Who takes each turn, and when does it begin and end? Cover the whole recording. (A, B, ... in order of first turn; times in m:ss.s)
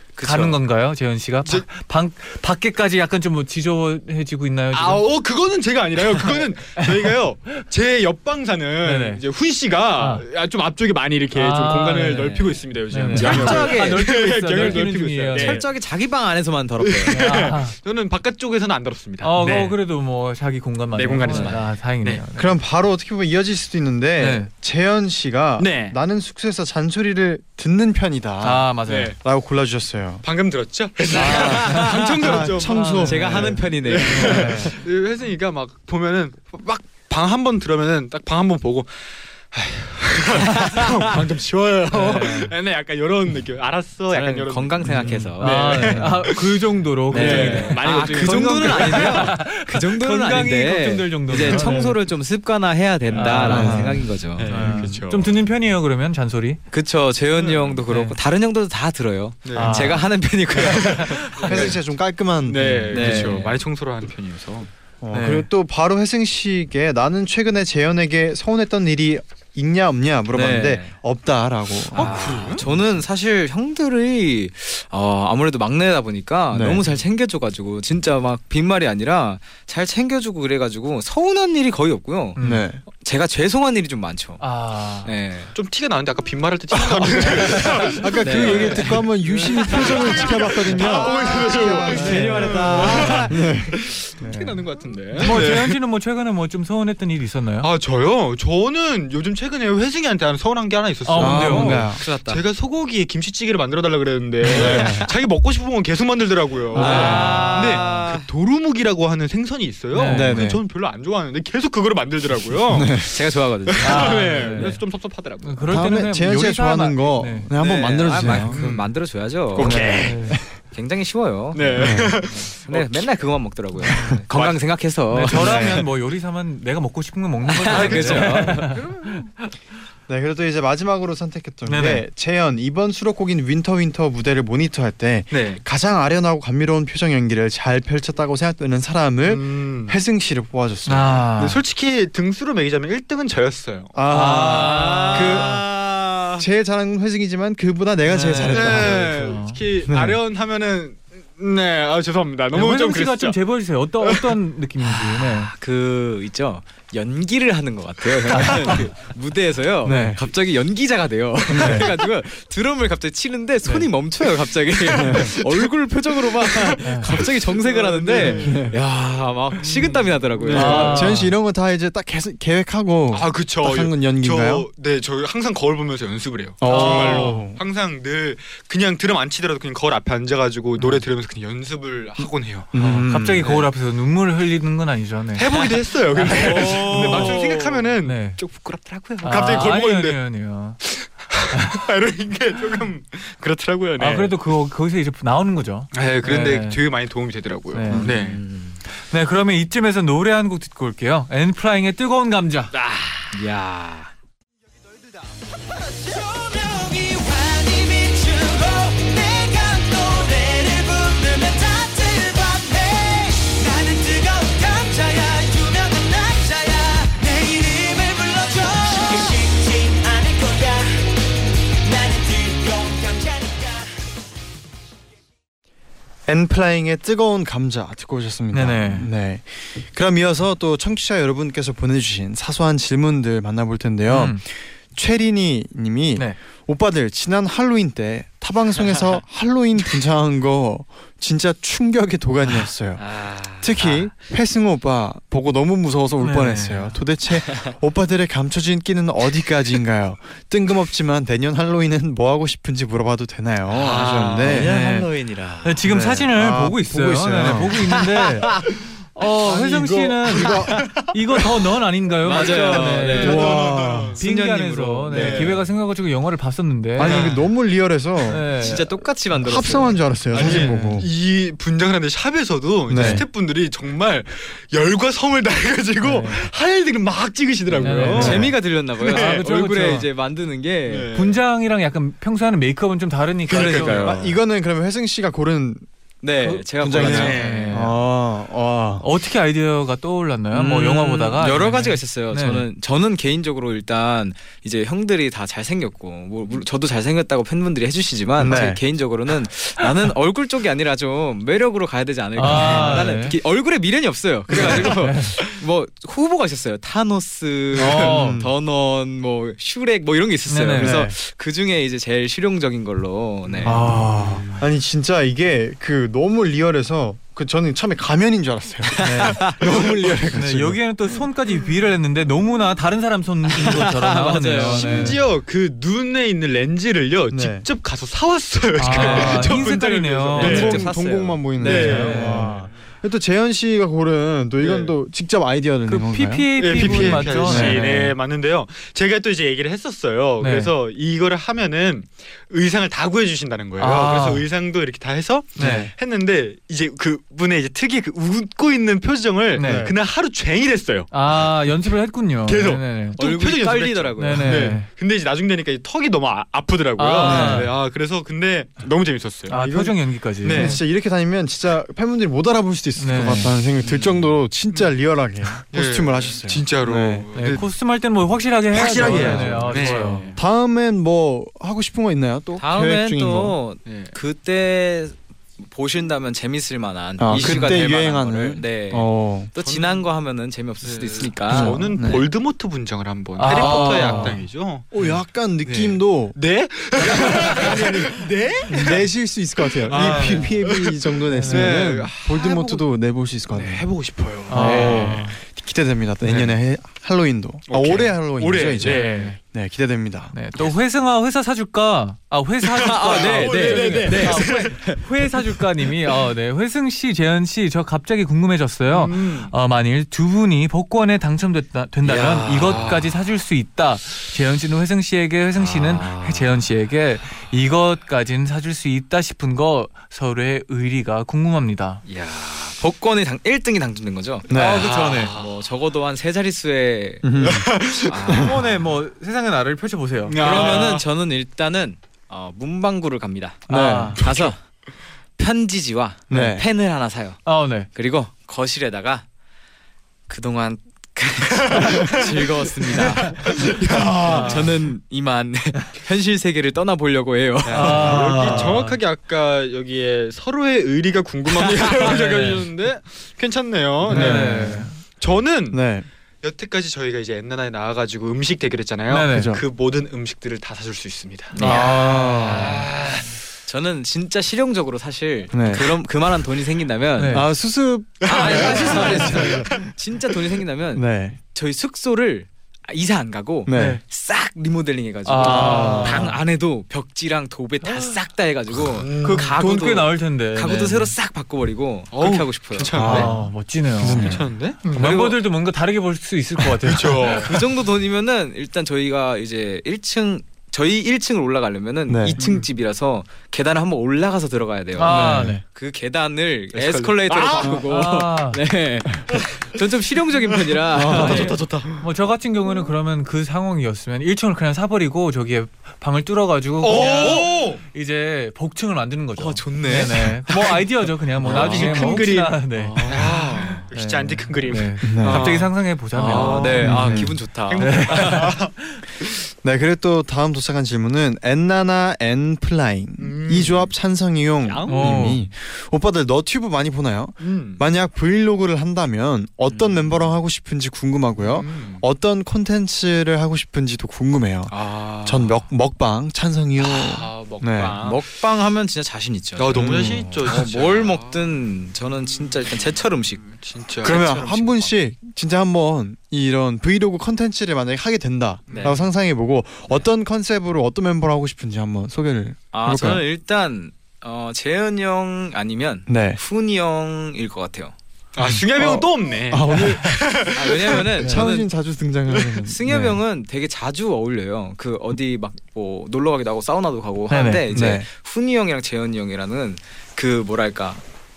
0:00.2-0:00.6 A
0:00.2-0:05.0 B
0:04.7-0:15.6 C
0:06.2-0:07.1 B
0:08.8-0:09.2 B
0:10.0-0:10.2 B
0:11.3-0:15.6 B
0:13.1-0:14.0 A
0:14.5-0:17.4 A
0:16.8-0:19.7 C
0:17.1-0:17.8 B
0:19.2-0:22.6 B
0:20.9-0:22.2 C
0:21.2-0:21.6 A
0:22.3-0:30.2 D
0:24.2-0:24.5 B
0:25.6-0:26.0 C
0:28.4-0:29.1 B
0:28.8-0:29.2 C
0:30.2-0:49.4 C
0:31.1-0:34.6 B
0:31.1-0:32.0 A
0:31.1-0:34.7 D
0:33.0-0:34.7 A
0:41.9-0:42.5 B
0:44.1-0:46.0 A
0:44.9-0:52.0 B
0:47.1-0:54.6 A
0:51.5-0:51.7 C
0:53.1-0:53.8 C
0:53.1-0:56.6 B
0:53.4-0:54.0 D
0:54.3-0:55.4 C
0:54.6-0:55.0 D
0:56.7-1:01.7 A
0:57.3-0:57.8 C
0:57.9-0:58.2 B
0:59.4-1:00.1 C
0:59.5-1:01.7 B
1:00.6-1:01.8 C
1:01.4-1:03.4 D
1:02.4-1:04.7 C
1:02.9-1:03.6 A
1:05.0-1:12.8 D
1:05.1-1:05.4 B
1:10.3-1:11.0 A
1:11.9-1:12.6 C
1:11.9-1:24.4 A
1:16.5-1:16.8 D
1:22.4-1:22.6 B
1:22.4-1:22.8 D
1:24.4-1:25.1 B
1:25.0-1:25.5 A
1:25.5-1:28.9 C
1:26.7-1:27.3 D
1:27.2-1:30.2 B
1:27.8-1:34.6 D
1:28.2-1:29.0 A
1:29.4-1:35.8 C
1:30.8-1:33.4 A
1:31.9-1:33.2 B
1:35.1-1:37.7 B
1:37.6-1:53.1 C
1:41.0-1:41.9 B
1:41.2-1:42.0 D
1:41.6-1:42.4 A
1:44.4-1:45.1 D
1:44.4-1:45.1 A
1:46.7-1:47.8 B
1:46.7-1:47.5 D
1:46.7-1:48.3 A
1:49.9-1:50.5 B
1:50.0-1:50.6 D
1:52.7-1:53.1 D
1:53.1-1:54.7 A
1:53.7-1:55.7 C
1:53.8-1:54.8 B
1:55.4-1:57.5 B
1:55.6-1:58.6 D
1:57.5-2:00.0 A
1:58.2-1:58.6 B
1:58.5-1:58.9 C
1:59.5-2:00.4 C
1:59.6-2:00.4 D
2:00.0-2:00.4 B
2:00.6-2:05.6 A
2:01.5-2:03.0 C
2:01.8-2:02.3 D
2:03.8-2:04.2 D
2:04.3-2:04.6 C
2:05.1-2:09.4 B
2:05.2-2:05.8 D
2:07.5-2:08.8 A
2:07.7-2:08.3 C
2:07.7-2:08.8 D
2:10.1-2:21.3 D
2:11.6-2:12.0 B
2:15.3-2:15.6 C
2:19.2-2:20.0 C
2:20.8-2:21.6 B
2:21.4-2:24.0 C
2:23.9-2:25.6 D
2:24.1-2:25.6 B
2:24.2-2:25.5 A
2:26.4-2:29.1 D
2:28.0-2:29.6 B
2:28.4-2:33.4 C
2:29.8-2:30.2 D
2:32.5-2:35.5 B
2:34.0-2:34.3 C
2:34.8-2:51.1 A
2:38.3-2:38.9 B
2:39.8-2:40.2 D
2:41.5-2:41.9 D
2:44.9-2:45.4 D
2:44.9-2:45.7 C
2:46.2-2:48.7 C
2:46.8-2:47.2 B
2:48.2-2:48.7 D
2:49.6-2:51.1 C
2:50.5-2:54.7 D
2:50.5-2:51.3 B
2:53.1-3:03.6 C
2:56.6-2:57.6 D
2:56.6-2:57.4 B
3:02.7-3:03.5 D
3:02.8-3:08.4 B
3:05.4-3:10.2 C
3:06.9-3:07.4 D
3:09.2-3:10.8 B
3:10.8-3:14.3 C
3:11.5-3:11.8 B
3:14.0-3:16.8 B
3:15.9-3:18.4 C
3:17.7-3:18.1 B
3:17.9-3:18.8 A
3:19.1-3:22.7 B
3:22.7-3:23.3 C
3:23.3-3:24.1 A
3:25.4-3:41.2 E
3:41.8-3:43.9 E
3:46.3-4:14.7 D
3:48.5-3:49.1 B
3:54.1-3:54.4 B
4:03.0-4:04.1 A
4:06.2-4:07.0 B
4:13.8-4:14.6 C
4:13.8-4:15.8 A
4:14.4-4:15.1 B
4:15.6-4:23.7 B
4:15.8-4:17.9 D
4:17.9-4:18.6 A
4:19.4-4:20.8 D
4:20.4-4:21.6 C
4:22.2-4:23.6 A
4:22.3-4:24.2 C
4:23.2-4:24.2 D
4:24.2-4:25.5 A
4:24.2-4:27.3 B
4:25.1-4:25.7 C
4:27.0-4:28.5 D
4:27.0-4:27.5 C
4:28.3-4:28.9 B
4:28.6-4:30.0 A
4:29.3-4:31.1 D
4:30.3-4:40.0 C
4:30.3-4:30.8 B
4:32.9-4:33.2 D
4:36.0-4:36.5 B
4:37.7-4:40.1 B
4:37.8-4:38.5 D
4:38.0-4:41.1 A
4:40.8-4:41.4 C
4:41.1-4:44.2 B
4:43.5-4:44.3 C
4:43.5-4:44.2 A
4:44.0-4:45.8 D
4:46.2-4:47.9 A
4:46.4-4:47.9 B
4:46.8-4:49.1 D
4:47.0-4:47.8 C
4:49.0-4:52.6 B
4:50.5-5:13.8 A
4:58.4-4:58.8 D
5:02.3-5:03.4 B
5:02.5-5:03.1 C
5:04.5-5:05.4 B
5:04.5-5:04.8 C
5:07.7-5:08.4 B
5:07.9-5:08.5 D
5:10.5-5:11.0 B
5:10.8-5:11.1 D
5:13.4-5:13.8 C
5:13.6-5:14.4 B
5:13.6-5:20.8 D
5:19.0-5:19.6 A
5:20.3-5:25.2 B
5:23.5-5:25.2 A
5:24.6-5:30.9 C
5:27.3-5:27.7 D
5:28.8-5:30.8 B
5:28.9-5:29.6 D
5:28.9-5:29.6 A
5:30.3-5:32.4 A
5:30.4-5:38.2 D
5:31.6-5:32.7 C
5:31.6-5:32.5 B
5:34.6-5:34.9 C
5:35.9-5:37.9 B
5:36.6-5:51.5 C
5:40.4-5:40.7 B
5:43.8-5:44.4 B
5:45.6-5:45.9 B
5:45.6-5:45.9 D
5:49.5-5:49.9 B
5:49.6-5:49.9 D
5:51.1-5:53.2 B
5:52.4-6:00.8 C
5:53.2-5:54.8 A
5:54.2-5:54.9 B
5:57.0-5:57.7 B
5:57.2-5:57.7 D
5:59.5-6:00.8 B
6:00.5-6:07.3 D
6:03.0-6:03.5 B
6:03.8-6:04.3 A
6:05.7-6:07.7 C
6:07.3-6:10.3 B
6:08.7-6:10.4 C
6:08.9-6:13.6 D
6:12.6-6:21.8 A
6:13.8-6:14.1 C
6:17.2-6:19.5 D
6:17.3-6:17.8 B
6:19.6-6:20.0 C
6:20.8-6:24.9 C
6:21.5-6:22.2 D
6:23.4-6:24.4 B
6:23.5-6:26.4 D
6:25.6-6:29.1 C
6:27.0-6:33.9 D
6:27.0-6:27.8 B
6:28.7-6:29.0 B
6:29.7-6:32.8 C
6:29.9-6:30.5 B
6:31.3-6:31.9 B
6:33.5-6:35.3 C
6:34.5-6:35.3 B
6:34.5-6:40.4 D
6:36.2-6:36.5 B
6:37.7-6:39.4 C
6:38.8-6:39.4 B
6:40.3-7:02.0 B
6:42.7-6:44.8 C
6:42.8-6:45.3 A
6:48.9-6:49.5 C
6:52.0-6:53.0 A
6:55.6-6:56.6 A
7:02.0-7:07.3 A
7:04.5-7:04.9 D
7:04.5-7:05.4 B
7:04.6-7:05.6 C
7:07.2-7:08.6 D
7:07.4-7:08.3 C
7:08.0-7:08.6 A
7:08.4-7:10.8 B
7:10.2-7:11.0 C
7:10.4-7:14.6 A
7:13.7-7:14.5 D
7:13.7-7:14.2 B
7:15.4-7:19.2 A
7:16.3-7:16.6 D
7:17.4-7:17.9 B
7:20.3-7:28.2 A
7:21.7-7:22.3 C
7:22.8-7:24.7 C
7:24.2-7:24.7 B
7:27.6-7:35.8 C
7:27.7-7:29.0 B
7:28.2-7:28.7 D
7:31.8-7:32.7 B
7:34.1-7:34.9 D
7:34.1-7:35.0 B
7:35.7-7:36.1 D
7:36.4-7:41.7 C
7:39.1-7:39.6 B
7:39.3-7:39.6 D
7:41.6-7:41.9 A
7:41.6-7:42.8 D
7:41.6-7:42.8 B
7:42.5-7:43.4 C
7:43.7-7:47.5 A
7:45.5-7:46.0 D
7:47.2-7:47.5 B
7:47.3-7:49.7 D
7:48.2-8:03.3 A
7:48.2-7:49.9 C
7:48.9-7:49.5 B
7:50.9-7:51.4 D
7:53.6-7:54.0 D
7:53.7-7:54.0 B
7:55.2-7:56.4 B
7:55.4-7:56.2 C
7:55.4-7:56.3 D
7:57.8-7:58.1 B
7:58.9-7:59.5 C
7:59.3-8:01.1 B
8:02.1-8:03.4 C
8:02.9-8:03.4 D
8:02.9-8:07.5 B
8:04.0-8:04.4 D
8:04.1-8:05.4 C
8:04.9-8:05.3 A
8:06.6-8:07.8 C
8:07.2-8:21.6 A
8:12.1-8:12.4 D
8:12.4-8:12.7 C
8:15.0-8:15.6 B
8:15.1-8:15.6 D
8:16.7-8:17.8 C
8:17.6-8:18.6 B
8:20.7-8:22.0 C
8:20.9-8:21.6 D
8:21.1-8:37.2 B
8:26.8-8:27.8 C
8:26.9-8:27.4 A
8:29.4-8:30.3 A
8:30.5-8:30.7 C
8:31.4-8:33.9 A
8:31.4-8:38.7 C
8:35.0-8:35.6 D
8:36.1-8:38.4 A
8:36.8-8:37.4 D
8:37.8-8:38.6 B
8:39.4-8:58.0 D
8:43.2-8:43.9 C
8:44.6-8:45.4 C
8:44.8-8:45.4 B
8:47.4-8:47.8 C
8:49.7-8:50.1 C
8:51.4-8:52.0 C
8:54.7-8:55.6 A
8:56.8-8:58.2 C
8:57.8-9:03.4 A
8:59.6-9:01.6 C
8:59.7-9:00.3 D
9:02.4-9:04.9 C
9:04.0-9:13.2 D
9:08.7-9:09.0 C
9:12.7-9:17.9 A
9:16.1-9:16.4 D
9:18.3-9:21.2 C
9:18.4-9:23.2 D
9:20.5-9:21.7 A
9:22.6-9:31.0 A
9:27.3-9:27.7 B
9:27.7-9:28.1 D